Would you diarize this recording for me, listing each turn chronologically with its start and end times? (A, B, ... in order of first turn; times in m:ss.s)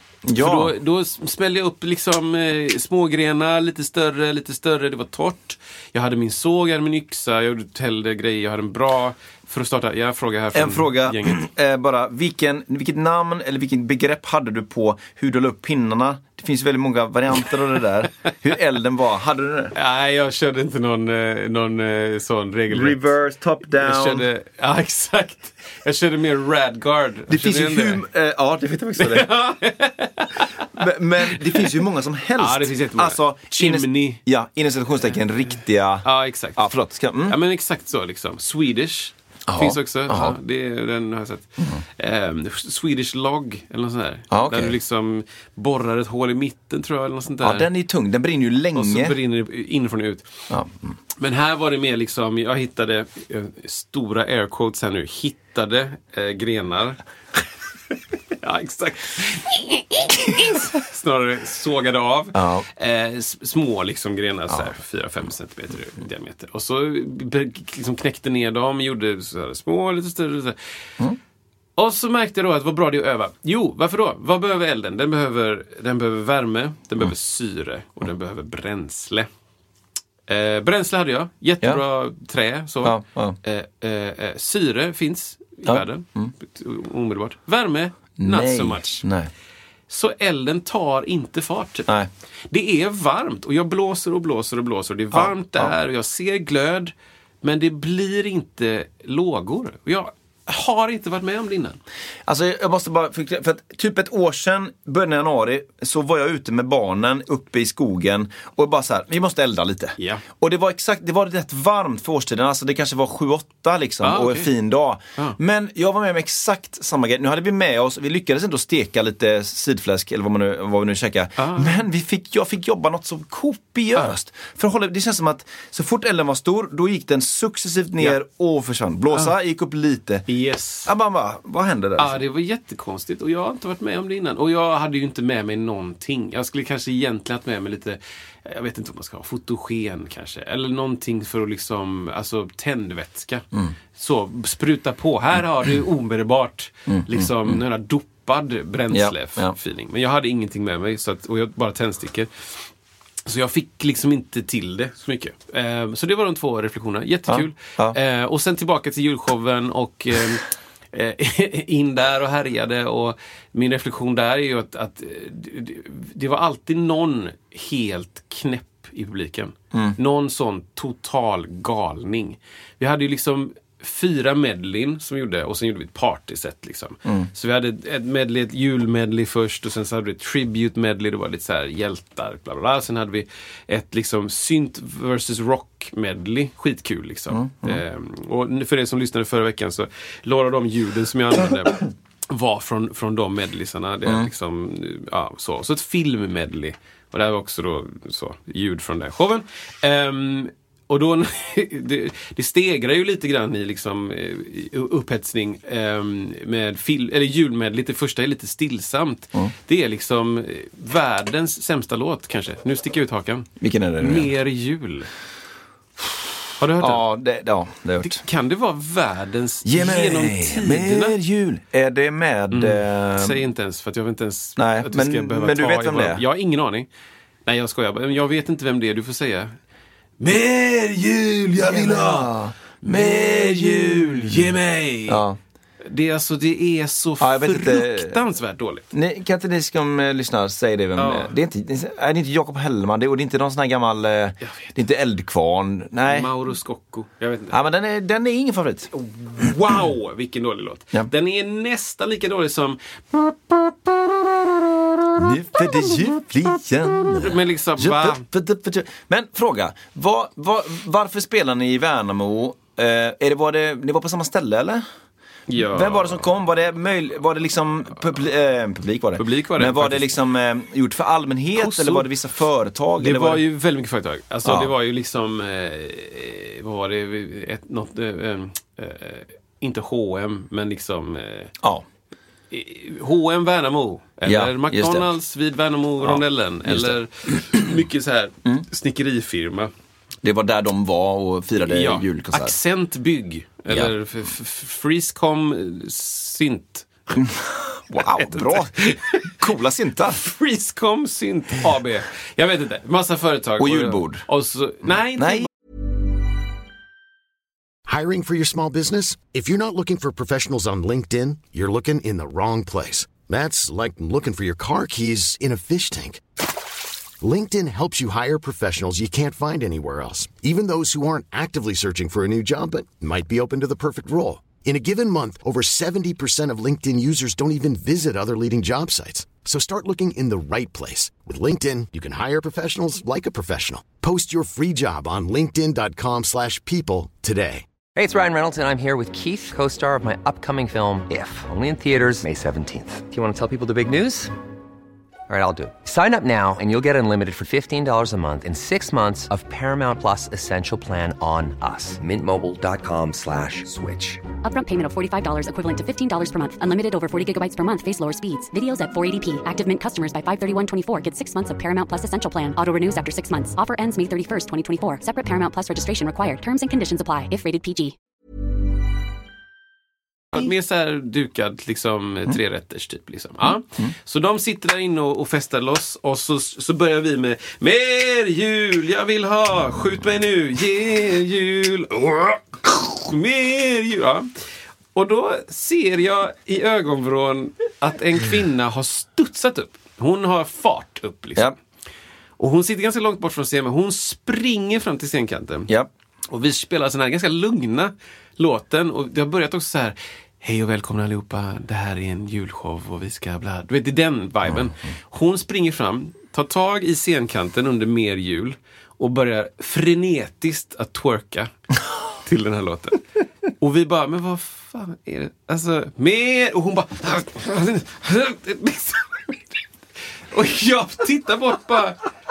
0:00.2-0:00.7 A
0:00.3-0:11.4 B
0:10.5-0:19.7 A
0:19.7-0:23.1 B
0:22.7-0:24.2 A
0:23.8-0:28.0 B
0:27.3-0:29.3 A
0:29.0-0:31.7 B
0:30.7-0:37.4 A
0:32.4-0:34.2 B
0:36.0-0:36.6 B
0:37.3-0:47.7 B
0:39.5-0:40.4 A
0:44.3-0:44.8 A
0:47.4-0:49.2 A
0:48.7-0:50.3 B
0:50.5-0:50.8 A
0:51.2-0:57.0 B
0:58.4-1:10.6 B
1:02.3-1:02.6 A
1:11.8-1:19.3 B
1:20.3-1:29.0 B
1:22.8-1:23.4 A
1:25.6-1:26.3 A
1:28.2-1:29.3 A
1:29.9-1:31.9 B
1:32.5-1:41.8 B
1:35.1-1:35.7 A
1:42.2-2:10.2 A
1:50.0-1:50.2 B
1:54.0-1:54.5 B
2:01.4-2:01.8 B
2:10.3-2:10.9 B
2:10.8-2:12.2 A
2:12.0-2:32.6 B
2:26.9-2:27.6 A
2:28.9-2:29.5 A
2:33.2-3:33.5 B
2:37.3-2:38.0 A
3:07.3-3:07.8 A
3:33.6-3:34.3 A
3:34.0-3:35.1 B
3:36.6-3:37.0 B
3:36.8-3:38.2 A
3:38.0-3:41.2 B
3:39.6-3:43.4 A
3:42.5-3:46.9 B
3:44.6-3:46.2 A
3:47.4-3:49.6 B
3:50.2-3:55.2 B
3:51.6-3:54.5 A
3:55.1-3:55.4 A
3:55.8-3:58.8 B
3:57.2-3:58.2 A
3:58.9-4:06.3 A
4:01.0-4:01.3 B
4:04.4-4:04.7 B
4:06.1-4:07.6 B
4:07.5-4:08.9 A
4:08.9-4:14.0 B
4:15.2-4:24.8 A
4:17.1-4:18.2 B
4:25.5-4:26.2 B
4:25.6-4:33.4 A
4:29.2-4:30.1 B
4:31.5-4:32.1 B
4:33.0-4:41.5 B
4:34.4-4:34.7 A
4:42.5-4:49.7 B
4:44.2-4:45.1 A
4:46.0-4:47.7 A
4:50.2-4:52.6 A
4:51.6-4:57.2 B
4:57.1-4:58.7 A
4:57.9-4:59.4 B
4:59.3-5:00.2 A
5:00.1-5:05.5 B
5:03.6-5:04.2 A
5:04.9-5:05.5 A
5:07.8-5:16.2 C
5:17.2-5:37.6 C
5:37.9-5:44.3 D
5:45.3-5:54.2 D
5:54.4-6:07.9 E
6:10.3-6:24.3 B
6:24.9-6:31.5 B
6:32.4-6:35.7 B
6:36.3-6:51.5 B
6:52.2-6:53.0 B
6:53.6-6:59.6 B
7:00.3-7:02.1 B